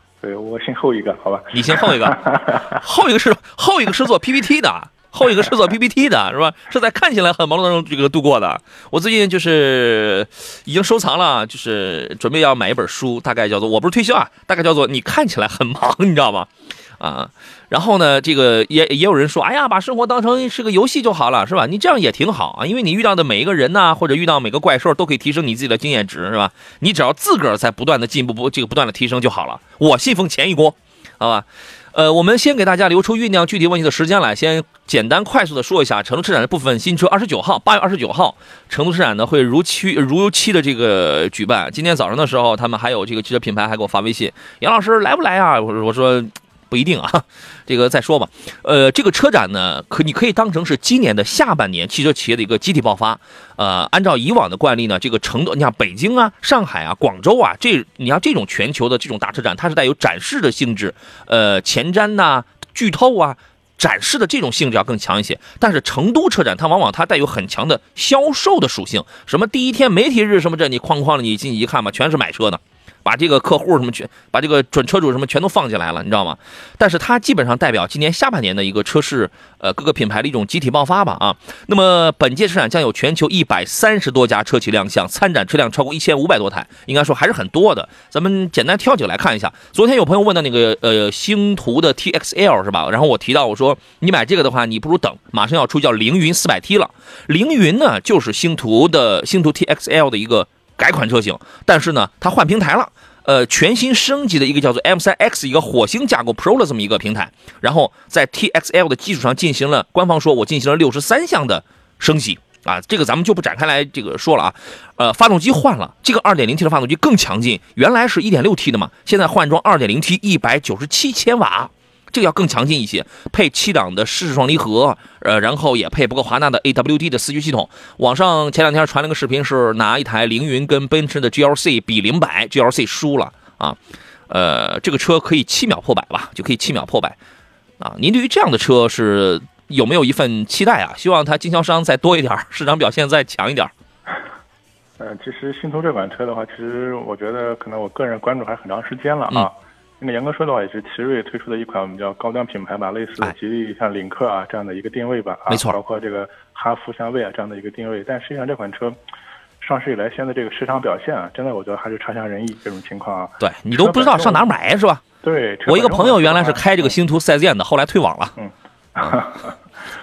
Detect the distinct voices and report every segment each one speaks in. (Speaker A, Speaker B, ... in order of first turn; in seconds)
Speaker A: 0.2-2.7, 145.0-159.0, 159.6-164.5, 165.2-166.9, 168.4-169.6
Speaker B: 1.5-133.8, 134.3-137.2, 137.8-143.7, 155.5-155.8, 163.4-165.0, 165.7-168.3